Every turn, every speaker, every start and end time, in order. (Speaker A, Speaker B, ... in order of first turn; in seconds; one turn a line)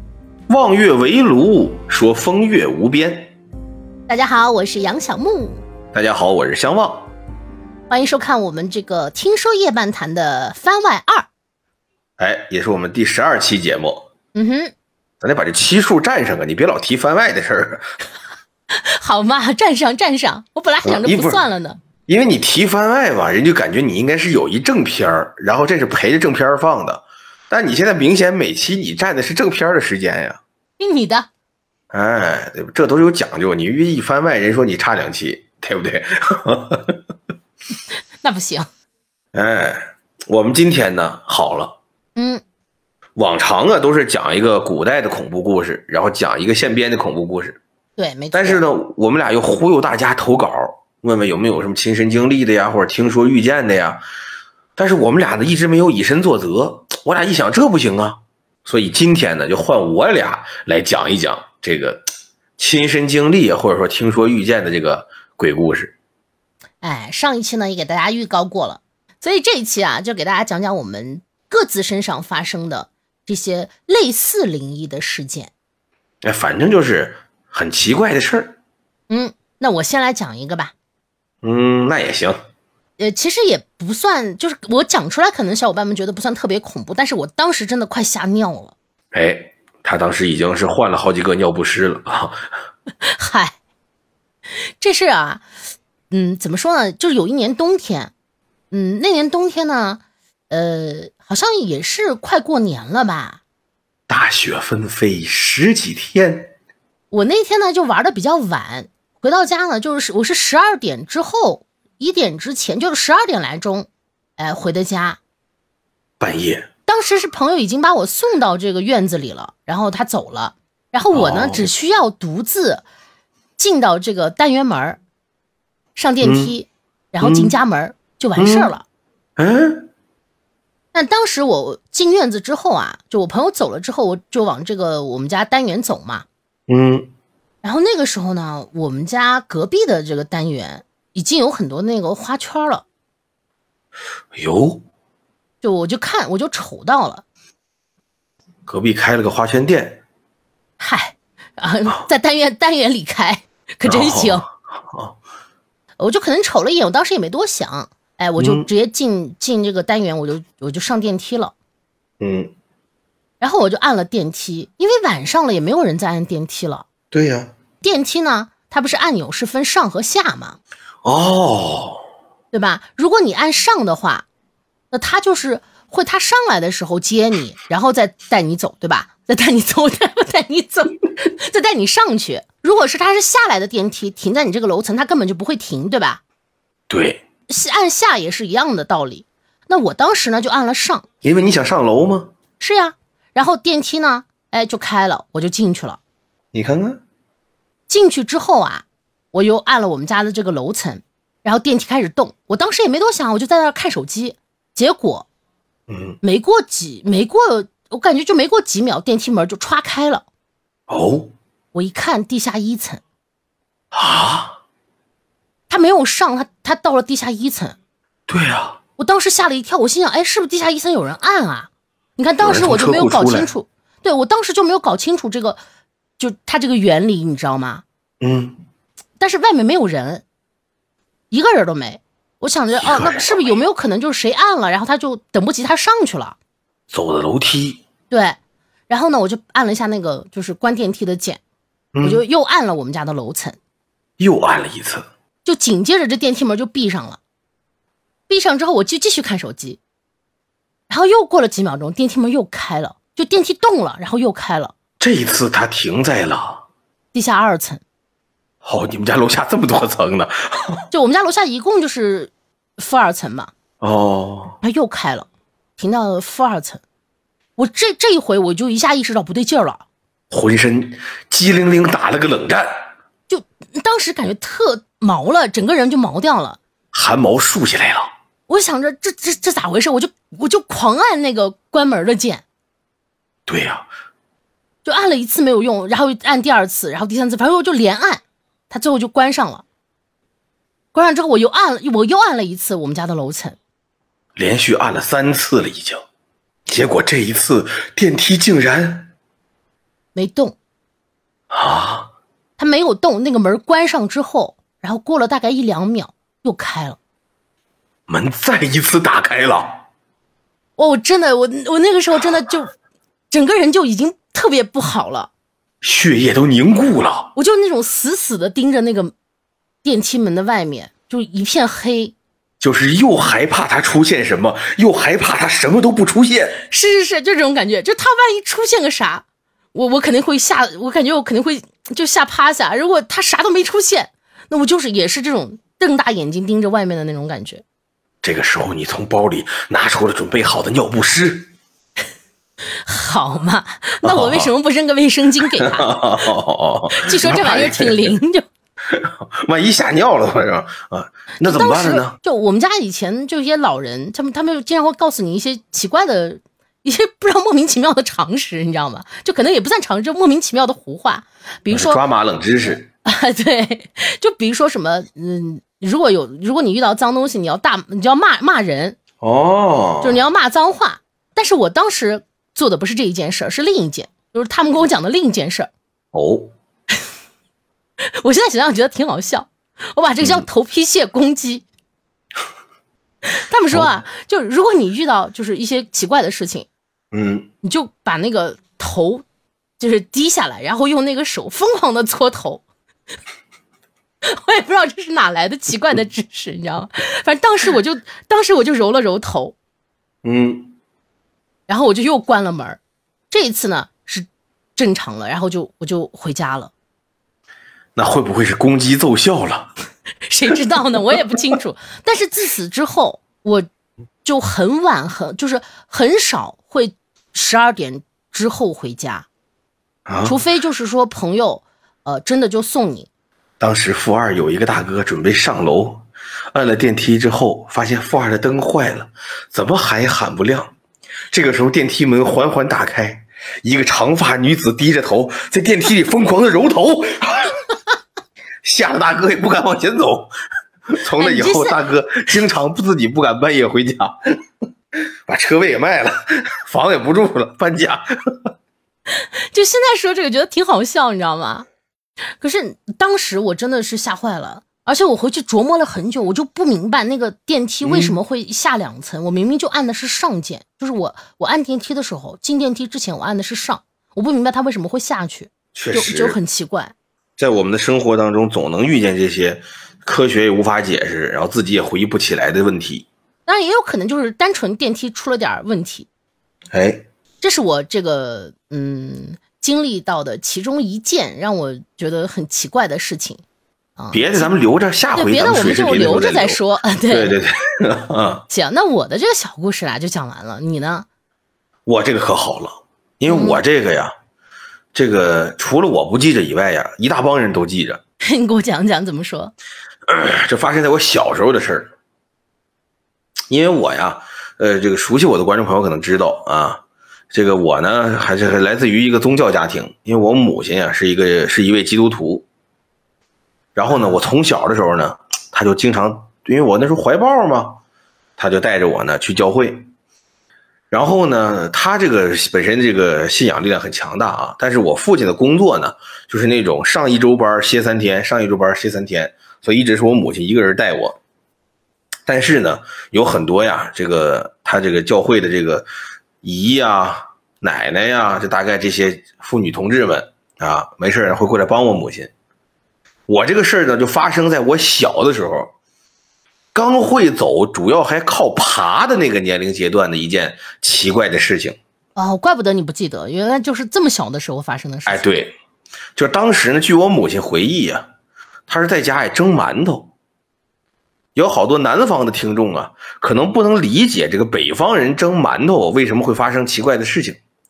Speaker A: 0.5-3.3
Speaker B: 4.1-5.6
Speaker A: 5.9-7.1
Speaker B: 7.9-11.3
Speaker A: 12.2-14.1
Speaker B: 14.3-14.7
Speaker A: 15.2-17.9
Speaker B: 18.8-21.8
Speaker A: 20.8-21.4
Speaker A: 22.1-30.4
Speaker B: 30.8-31.3
Speaker A: 31.9-37.0
Speaker B: 38.2-38.7
Speaker A: 39.3-41.8
Speaker B: 42.2-42.4
Speaker A: 43.2-47.6
Speaker B: 48.0-48.6
Speaker A: 48.3-54.0
Speaker A: 54.8-62.1
Speaker A: 62.6-66.0
Speaker B: 66.8-75.5
Speaker A: 76.2-78.6
Speaker B: 79.1-80.7
Speaker A: 81.4-82.4
Speaker B: 83.0-88.8
Speaker A: 89.1-92.4
Speaker B: 93.1-93.5
Speaker B: 94.8-95.5
Speaker B: 96.1-98.1
Speaker B: 98.7-103.4
Speaker A: 104.1-106.5
Speaker B: 107.1-115.2
Speaker A: 116.2-116.7
Speaker B: 116.9-122.8
Speaker A: 121.1-121.7
Speaker B: 123.6-125.0
Speaker B: 126.0-128.8
Speaker A: 126.2-126.5
Speaker A: 127.2-127.5
Speaker A: 128.4-128.7
Speaker A: 129.4-129.8
Speaker B: 130.9-136.3
Speaker A: 136.7-137.1
Speaker B: 137.6-142.8
Speaker A: 144.3-144.8
Speaker B: 145.6-147.2
Speaker A: 148.7-150.0
Speaker B: 150.8-154.4
Speaker A: 153.8-155.2
Speaker B: 156.0-161.6
Speaker A: 158.4-158.7
Speaker A: 162.2-162.5
Speaker B: 163.4-166.9
Speaker A: 167.1-167.5
Speaker B: 167.8-170.6
Speaker A: 171.0-172.0
Speaker B: 172.5-174.3
Speaker B: 174.9-186.2
Speaker A: 186.9-187.2
Speaker B: 187.5-191.1
Speaker A: 191.2-192.3
Speaker B: 192.6-196.0
Speaker A: 196.5-197.0
Speaker B: 197.9-205.3
Speaker A: 205.9-206.2
Speaker B: 206.2-210.3
Speaker A: 210.9-211.3
Speaker B: 211.7-213.0
Speaker A: 213.9-214.6
Speaker B: 215.7-217.8
Speaker A: 218.3-218.8
Speaker B: 219.0-225.6
Speaker A: 222.4-223.5
Speaker B: 226.2-227.8
Speaker A: 228.2-228.6
Speaker B: 229.2-230.2
Speaker B: 231.3-236.4
Speaker A: 232.8-233.6
Speaker A: 236.9-237.8
Speaker B: 238.1-238.4
Speaker B: 238.9-241.4
Speaker A: 241.9-242.2
Speaker B: 242.0-243.6
Speaker A: 244.2-245.1
Speaker B: 245.4-247.2
Speaker B: 248.3-249.8
Speaker B: 250.9-254.7
Speaker A: 255.0-256.6
Speaker B: 257.1-257.8
Speaker A: 258.6-260.8
Speaker B: 260.9-263.5
Speaker A: 263.8-264.6
Speaker B: 264.6-266.8
Speaker B: 267.6-269.8
Speaker A: 270.3-272.9
Speaker B: 273.3-276.6
Speaker A: 276.9-278.1
Speaker B: 278.5-282.4
Speaker A: 283.5-283.9
Speaker B: 284.9-289.6
Speaker B: 290.9-293.6
Speaker A: 294.4-296.0
Speaker A: 296.7-299.1
Speaker B: 300.1-300.6
Speaker A: 301.5-302.1
Speaker B: 302.6-307.0
Speaker A: 308.1-309.8
Speaker B: 310.8-312.7
Speaker B: 313.3-315.3
Speaker A: 315.8-317.3
Speaker B: 317.4-319.1
Speaker B: 319.8-322.1
Speaker A: 322.6-326.6
Speaker B: 326.6-337.6
Speaker A: 338.2-341.5
Speaker B: 342.8-346.0
Speaker A: 344.0-344.5
Speaker A: 345.6-348.1
Speaker B: 346.9-348.5
Speaker A: 348.9-352.2
Speaker B: 351.4-362.0
Speaker A: 361.7-362.9
Speaker B: 363.1-369.0
Speaker A: 369.2-370.2
Speaker B: 370.0-375.7
Speaker A: 376.1-376.5
Speaker B: 378.2-381.6
Speaker B: 383.2-386.7
Speaker A: 387.1-387.5
Speaker B: 387.6-389.2
Speaker B: 389.8-392.6
Speaker B: 394.2-399.6
Speaker A: 400.2-400.8
Speaker B: 401.7-402.8
Speaker B: 403.3-406.7
Speaker A: 408.0-409.7
Speaker B: 410.3-413.7
Speaker B: 414.2-419.3
Speaker A: 420.1-420.4
Speaker B: 420.2-423.1
Speaker A: 423.6-430.7
Speaker A: 431.3-437.6
Speaker A: 438.6-440.3
Speaker A: 440.9-444.1
Speaker B: 441.2-441.8
Speaker A: 445.3-448.0
Speaker B: 449.1-451.7
Speaker B: 452.4-466.9
Speaker A: 457.8-458.2
Speaker A: 465.8-466.4
Speaker A: 467.4-473.1
Speaker B: 473.5-476.1
Speaker A: 476.7-477.1
Speaker B: 477.4-483.4
Speaker B: 484.0-484.5
Speaker A: 484.1-486.6
Speaker B: 485.1-487.4
Speaker A: 487.1-488.4
Speaker B: 488.5-491.1
Speaker A: 491.9-494.1
Speaker B: 493.3-493.6
Speaker A: 494.9-498.0
Speaker B: 498.2-499.5
Speaker A: 500.1-501.9
Speaker A: 503.5-512.5
Speaker A: 513.8-517.8
Speaker A: 518.4-519.9
Speaker A: 520.9-531.2
Speaker A: 532.3-535.9
Speaker A: 536.4-542.3
Speaker A: 543.3-545.7
Speaker A: 546.7-551.8
Speaker B: 552.2-555.2
Speaker A: 555.1-555.5
Speaker A: 556.2-558.1
Speaker A: 558.7-560.1
Speaker A: 561.4-567.4